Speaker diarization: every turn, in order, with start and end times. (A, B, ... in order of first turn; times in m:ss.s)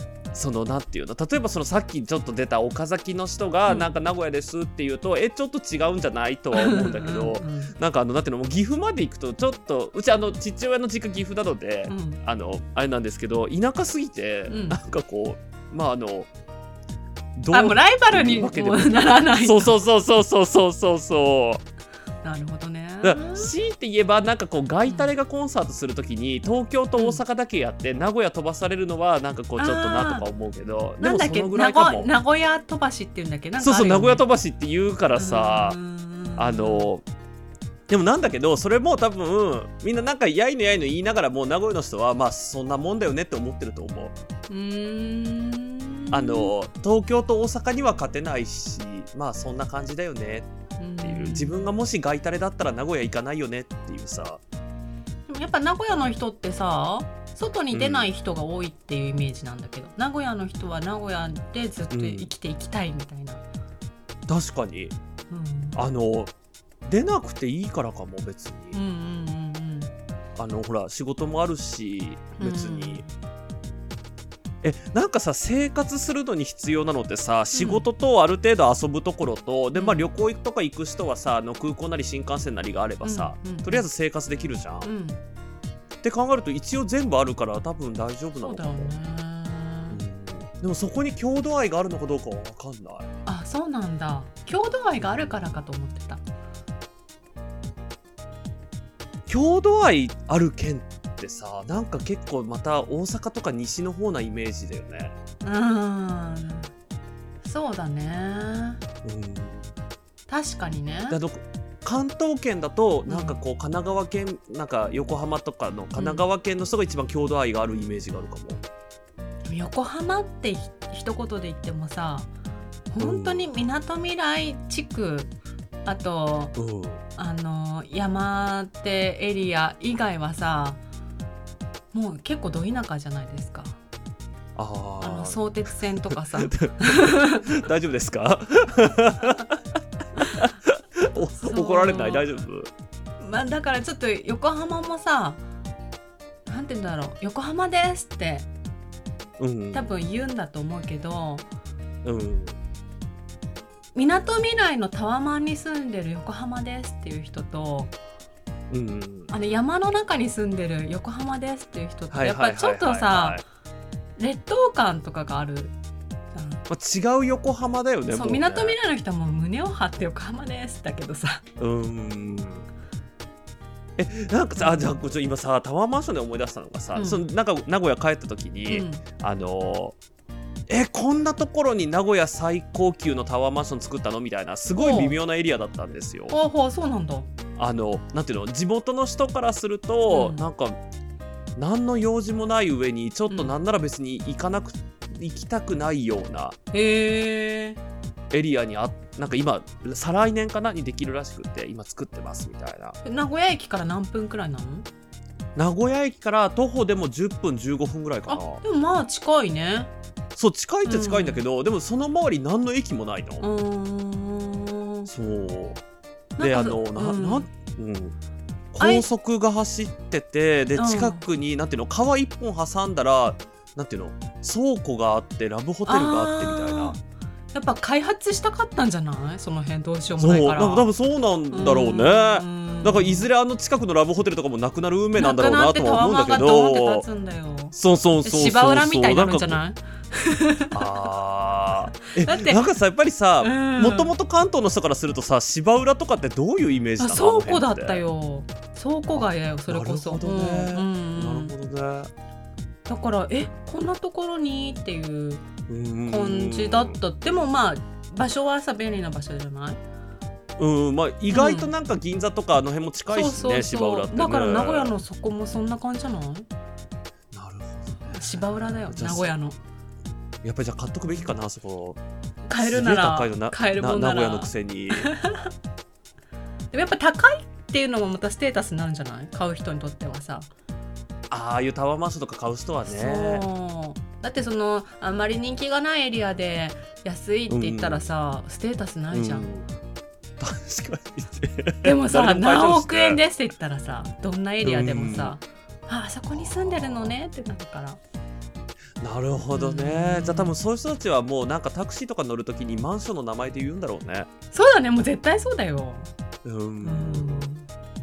0:00.3-0:16.3 A
0:03.6-0:03.9 B
0:06.5-0:07.7 B
0:11.9-0:12.2 B
0:14.5-0:14.8 B
0:17.4-0:21.6 A
0:17.5-0:19.8 B
0:22.2-0:23.5 B
0:23.0-0:32.1 A
0:27.0-0:27.2 B
0:29.6-0:30.2 B
0:31.0-0:34.2 B
0:33.6-0:35.8 A
0:35.2-0:36.9 B
0:36.4-0:37.0 A
0:37.9-0:44.1 A
0:44.5-0:46.5 B
0:46.1-0:50.5 A
0:50.8-0:51.7 B
0:51.0-0:54.4 A
0:55.3-1:03.4 B
0:57.7-0:58.1 A
1:01.9-1:02.3 A
1:04.3-1:04.9 A
1:05.3-1:05.8 B
1:05.7-1:06.3 A
1:06.8-1:08.8 A
1:08.7-1:09.9 B
1:10.4-1:13.0 A
1:12.4-1:13.1 B
1:14.6-1:24.9 A
1:17.5-1:17.8 B
1:19.7-1:20.1 B
1:23.0-1:23.9 B
1:24.8-1:25.2 B
1:26.0-1:28.9 A
1:28.4-1:30.0 B
1:29.9-1:33.1 A
1:33.2-1:36.2 B
1:35.0-1:35.3 A
1:39.3-1:45.1 A
1:45.4-1:46.7 B
1:47.4-1:48.8 B
1:49.0-1:49.7 A
1:50.3-1:51.2 B
1:51.1-1:58.6 A
1:53.1-1:53.4 B
1:55.9-1:56.2 B
1:59.5-2:02.3 B
2:02.9-2:05.3 B
2:03.0-2:03.5 A
2:05.8-2:06.5 B
2:06.6-2:07.0 A
2:07.2-2:10.8 B
2:11.9-2:13.8 B
2:14.5-2:19.6 A
2:15.0-2:17.5 B
2:20.2-2:22.7 A
2:21.4-2:22.3 B
2:23.2-2:25.4 B
2:26.4-2:28.5 B
2:29.4-2:29.9 A
2:29.7-2:31.4 B
2:32.0-2:32.6 A
2:33.9-2:37.9 B
2:38.7-2:39.3 A
2:39.3-2:43.4 B
2:42.1-2:43.4 A
2:44.2-2:45.7 B
2:46.3-2:46.6 B
2:46.7-2:48.8 A
2:48.1-2:51.4 B
2:51.6-2:52.6 A
2:54.0-3:00.0 A
2:54.6-2:54.9 B
2:56.9-2:57.2 B
2:58.7-2:59.0 B
3:00.7-3:06.3 A
3:04.8-3:05.2 B
3:06.3-3:07.3 B
3:07.6-3:10.8 A
3:10.1-3:10.4 B
3:11.6-3:16.6 A
3:13.3-3:13.6 B
3:16.7-3:17.8 B
3:18.3-3:23.0 A
3:23.0-3:24.9 B
3:25.6-3:28.6 A
3:28.3-3:29.9 B
3:30.4-3:33.4 A
3:30.8-3:31.4 B
3:33.4-3:35.1 B
3:35.1-3:35.8 A
3:36.4-3:37.4 B
3:36.4-3:38.1 A
3:38.7-3:46.9 A
3:38.8-3:39.0 B
3:40.8-3:41.2 B
3:45.8-3:47.0 B
3:47.5-3:50.9 B
3:50.2-3:57.0 A
3:51.5-3:53.3 B
3:55.2-4:00.9 B
3:57.7-3:59.6 A
4:00.7-4:08.0 A
4:02.0-4:02.6 B
4:03.4-4:04.1 B
4:07.0-4:11.5 B
4:09.1-4:12.1 A
4:12.9-4:15.4 B
4:15.7-4:17.0 A
4:16.1-4:19.8 B
4:20.6-4:24.9 A
4:21.3-4:21.7 B
4:23.1-4:26.5 B
4:27.3-4:29.3 A
4:28.1-4:29.6 B
4:30.4-4:32.0 A
4:32.5-4:35.5 B
4:32.6-4:35.1 A
4:36.7-4:40.5 B
4:41.3-4:43.4 A
4:42.9-4:49.5 B
4:47.5-4:48.0 A
4:49.1-4:49.6 A
4:50.4-4:53.2 A
4:51.8-4:58.0 B
4:54.6-4:55.4 A
4:56.3-4:57.1 A
4:59.0-5:04.3 A
4:59.5-5:00.6 B
5:04.5-5:06.1 B
5:06.4-5:07.5 A
5:06.8-5:07.7 B